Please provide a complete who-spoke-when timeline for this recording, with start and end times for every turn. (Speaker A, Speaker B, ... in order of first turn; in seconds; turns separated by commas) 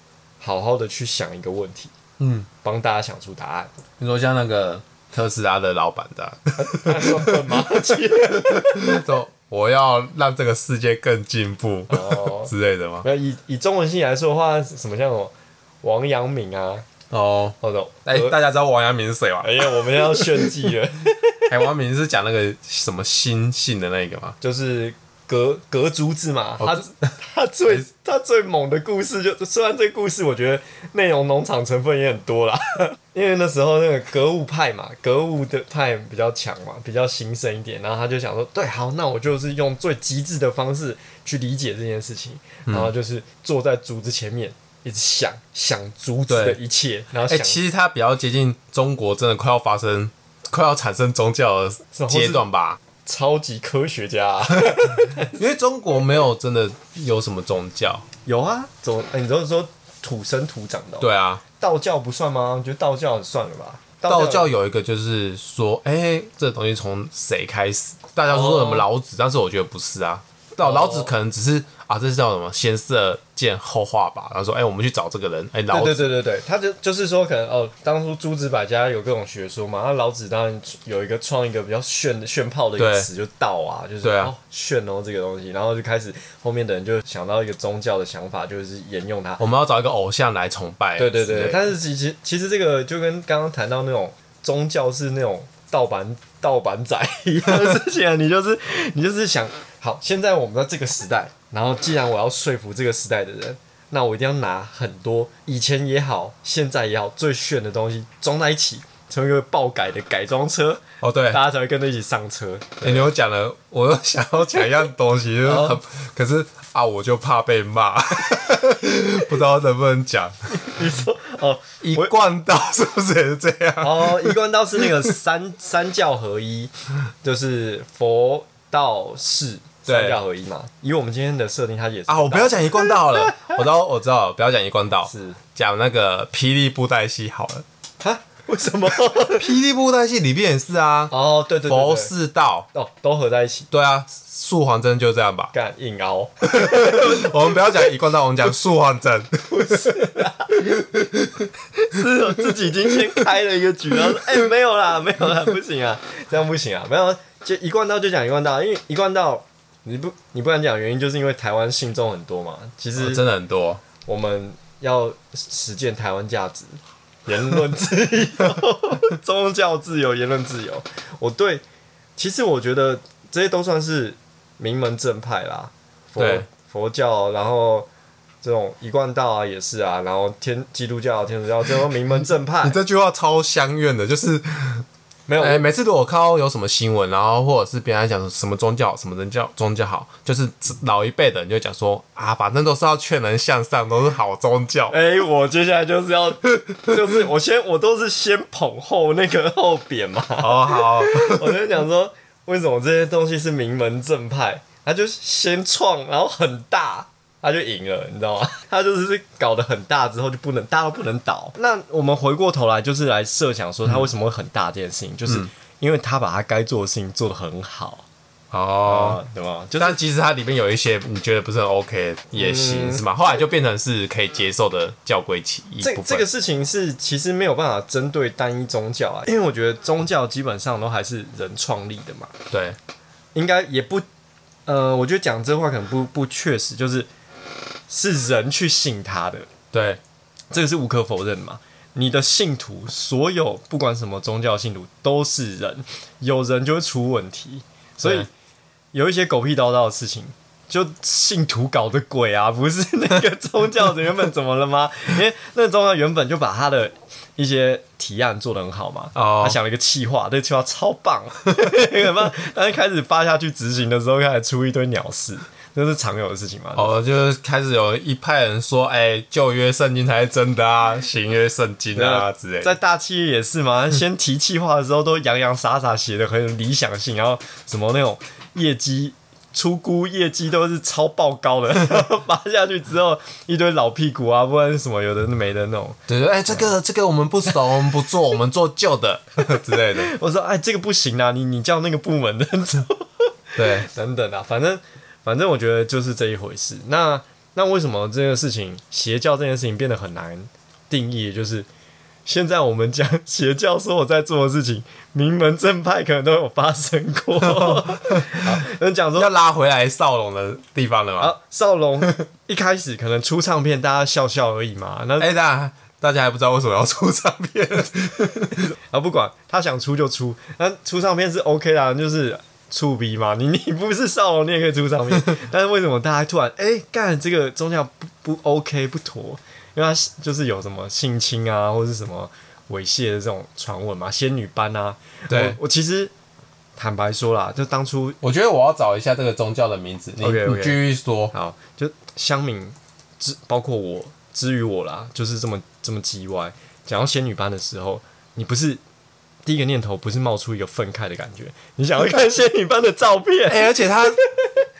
Speaker A: 0.4-1.9, Speaker B: 2.2-2.5, Speaker A: 2.6-3.7, Speaker B: 4.0-13.1, Speaker A: 6.6-9.1, Speaker A: 11.9-16.9, Speaker B: 17.1-20.6, Speaker A: 17.6-18.4, Speaker A: 19.4-21.5, Speaker B: 21.5-24.4, Speaker A: 24.4-47.6, Speaker B: 26.6-26.9, Speaker B: 42.7-42.9, Speaker B: 46.3-46.6, Speaker B: 47.2-52.8, Speaker A: 51.9-52.5, Speaker A: 53.0-55.4, Speaker B: 55.0-58.0, Speaker A: 58.2-64.5, Speaker B: 61.0-61.4, Speaker B: 64.0-76.1, Speaker A: 68.3-68.8, Speaker A: 70.6-71.1, Speaker A: 75.7-89.4, Speaker B: 82.8-83.1, Speaker B: 84.0-84.3, Speaker B: 89.4-91.7, Speaker A: 91.0-113.1, Speaker B: 111.0-111.4, Speaker B: 112.8-120.3, Speaker A: 115.4-115.8, Speaker A: 120.5-122.1, Speaker B: 121.8-124.8, Speaker A: 123.8-126.7, Speaker A: 127.2-133.6, Speaker B: 129.8-130.2, Speaker B: 132.1-137.6, Speaker A: 135.0-135.4, Speaker A: 138.0-139.5, Speaker B: 139.3-142.7, Speaker A: 141.1-142.1, Speaker A: 142.7-143.7, Speaker B: 143.7-145.5, Speaker A: 145.5-147.6, Speaker B: 146.4-150.0, Speaker A: 149.5-150.9, Speaker B: 150.7-151.5, Speaker A: 151.8-163.2, Speaker B: 163.0-163.8, Speaker A: 164.0-171.6, Speaker A: 172.2-177.9, Speaker B: 176.2-176.4, Speaker A: 178.4-182.8, Speaker B: 182.6-184.8, Speaker A: 185.3-185.6, Speaker B: 185.4-194.9, Speaker A: 194.9-218.1, Speaker B: 200.4-201.6, Speaker B: 218.5-219.2, Speaker A: 218.8-220.0, Speaker B: 219.8-226.2, Speaker A: 222.3-223.0, Speaker A: 225.8-232.3, Speaker B: 232.5-232.8, Speaker A: 233.3-234.0, Speaker A: 234.7-237.1, Speaker A: 237.9-239.5, Speaker B: 239.7-240.0, Speaker A: 240.5-248.3, Speaker B: 248.0-248.3, Speaker A: 248.9-266.9, Speaker B: 259.1-259.6, Speaker B: 266.8-272.7, Speaker A: 271.9-286.0, Speaker B: 286.1-290.1, Speaker A: 289.4-301.7, Speaker B: 293.6-293.9, Speaker A: 302.2-309.3, Speaker B: 307.4-308.6, Speaker B: 309.1-311.3, Speaker A: 311.2-315.3, Speaker B: 315.2-318.6, Speaker A: 318.5-336.1, Speaker B: 335.3-335.6, Speaker A: 336.8-338.2, Speaker B: 338.2-341.3, Speaker A: 340.2-348.8, Speaker A: 349.4-354.5, Speaker B: 353.5-354.2